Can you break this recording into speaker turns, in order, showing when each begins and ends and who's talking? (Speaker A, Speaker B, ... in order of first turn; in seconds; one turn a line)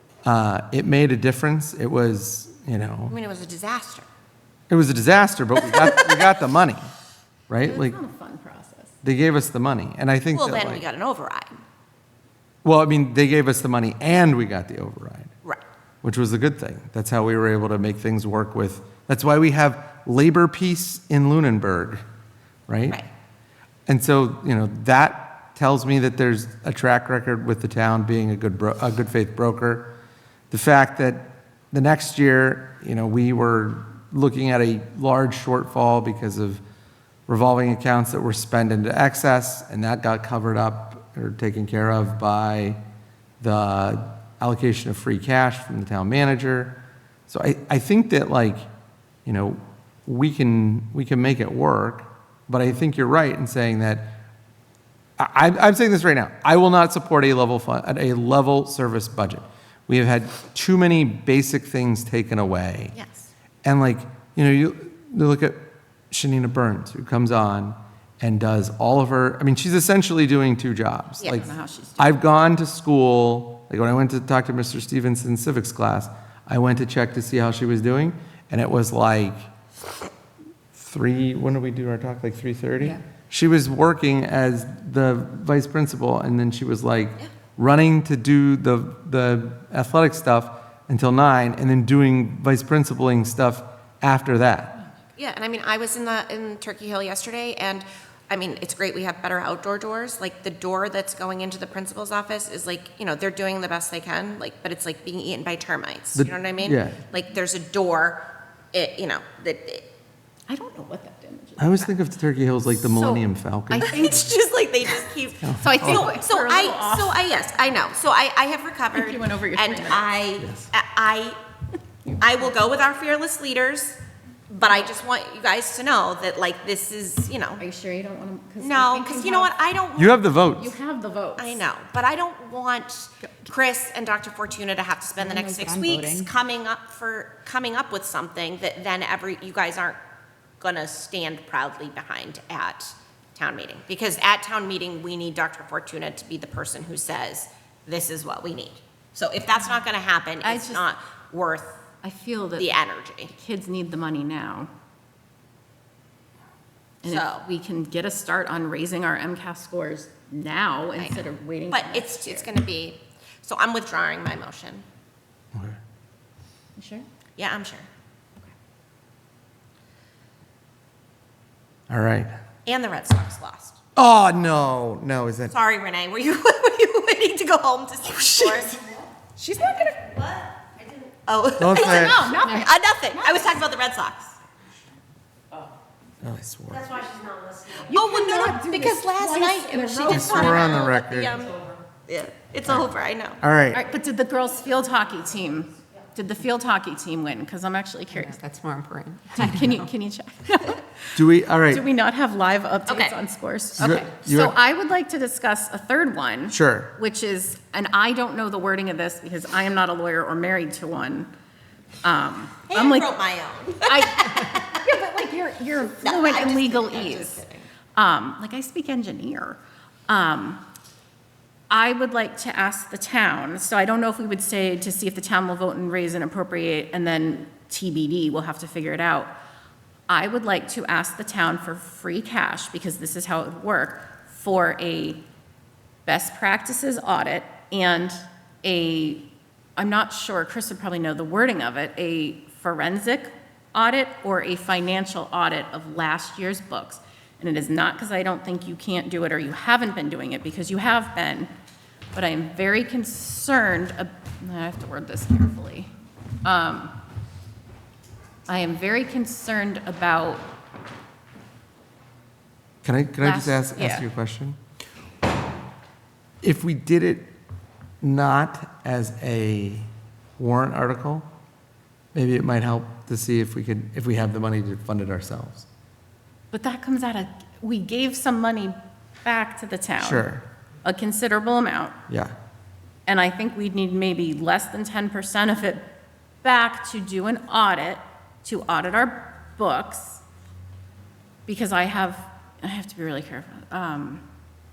Speaker A: 0.2-3.1
Speaker B: 3.1-4.1
Speaker A: 4.7-6.8
Speaker A: 7.5-8.0
Speaker C: 7.6-8.9
Speaker A: 9.0-10.8
Speaker B: 10.3-11.6
Speaker A: 12.6-15.3
Speaker A: 16.0-22.0
Speaker A: 22.7-23.0
Speaker A: 23.9-29.9
Speaker A: 30.5-36.6
Speaker A: 37.3-42.8
Speaker A: 43.4-46.8
Speaker A: 47.3-48.7
Speaker A: 49.3-54.1
Speaker A: 55.2-63.0
Speaker B: 62.9-63.3
Speaker A: 63.6-79.5
Speaker C: 71.2-72.2
Speaker A: 80.7-94.8
Speaker B: 95.2-109.9
Speaker A: 106.2-107.0
Speaker C: 110.5-111.9
Speaker A: 111.6-114.2
Speaker C: 112.7-114.2
Speaker B: 113.9-121.4
Speaker A: 115.4-116.1
Speaker C: 115.6-117.2
Speaker C: 118.9-120.1
Speaker A: 120.4-120.7
Speaker B: 122.2-124.0
Speaker B: 124.5-127.6
Speaker C: 127.6-129.5
Speaker B: 128.6-130.2
Speaker A: 130.0-130.7
Speaker C: 130.5-131.6
Speaker B: 131.4-140.0
Speaker D: 135.2-136.3
Speaker B: 140.6-151.8
Speaker C: 150.4-150.8
Speaker C: 152.0-152.8
Speaker B: 152.6-153.3
Speaker C: 153.3-154.7
Speaker C: 157.0-162.5
Speaker B: 157.1-157.4
Speaker B: 161.0-164.8
Speaker A: 165.5-165.8
Speaker C: 166.8-167.1
Speaker B: 167.4-167.9
Speaker A: 171.9-172.3
Speaker B: 172.7-173.8
Speaker A: 174.0-175.5
Speaker B: 175.5-178.8
Speaker B: 179.4-184.3
Speaker A: 181.6-182.3
Speaker C: 181.8-183.6
Speaker A: 186.2-187.0
Speaker C: 187.8-190.9
Speaker B: 187.8-193.4
Speaker A: 190.1-191.3
Speaker A: 193.4-193.8
Speaker C: 193.7-198.4
Speaker D: 198.1-199.9
Speaker C: 199.3-211.3
Speaker A: 201.2-201.8
Speaker B: 202.9-203.2
Speaker A: 203.8-204.6
Speaker A: 206.5-206.9
Speaker C: 212.0-213.2
Speaker B: 212.7-214.6
Speaker C: 213.8-217.4
Speaker B: 216.0-217.7
Speaker C: 217.9-220.6
Speaker C: 221.7-229.3
Speaker C: 230.1-235.2
Speaker C: 236.1-251.5
Speaker C: 252.1-255.9
Speaker C: 256.4-257.0
Speaker C: 258.5-260.5
Speaker A: 262.8-264.6
Speaker C: 263.2-264.1
Speaker A: 266.4-267.3
Speaker A: 268.0-271.3
Speaker A: 272.1-275.7
Speaker C: 276.5-282.0
Speaker A: 280.0-280.4
Speaker C: 283.1-285.8
Speaker C: 286.4-290.2
Speaker C: 291.5-294.2